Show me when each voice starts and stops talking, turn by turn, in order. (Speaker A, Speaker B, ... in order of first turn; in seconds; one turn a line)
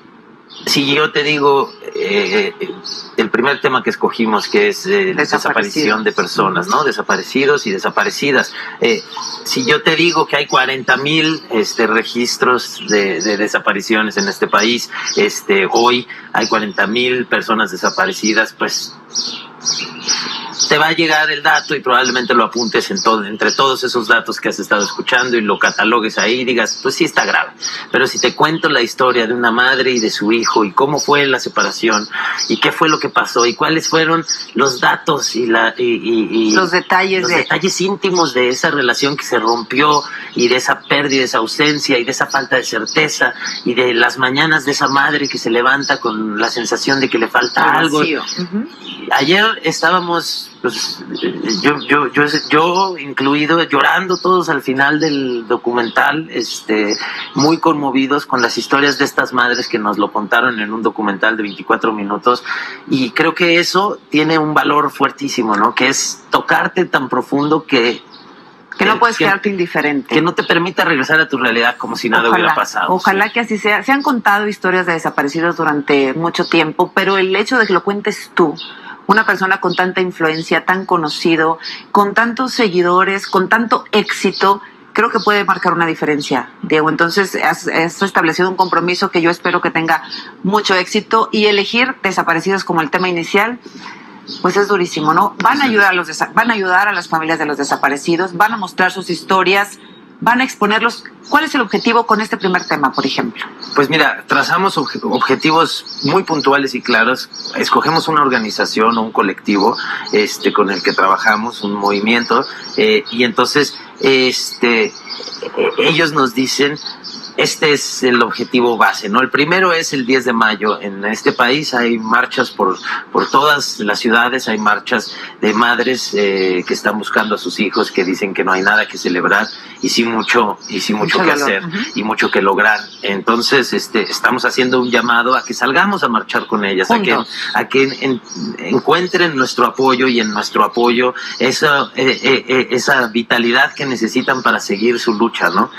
Speaker A: 0.7-18.9
Speaker B: 5.1-6.7
Speaker A: 20.6-48.1
Speaker B: 36.5-37.5
Speaker B: 47.6-48.7
Speaker A: 48.9-68.0
Speaker B: 68.8-70.2
Speaker A: 68.8-69.4
Speaker A: 70.1-73.2
Speaker B: 72.1-93.6
Speaker B: 94.4-103.4
Speaker A: 95.5-95.8
Speaker A: 103.7-116.8
Speaker A: 117.4-145.7
Speaker B: 131.0-131.8
Speaker B: 136.9-137.2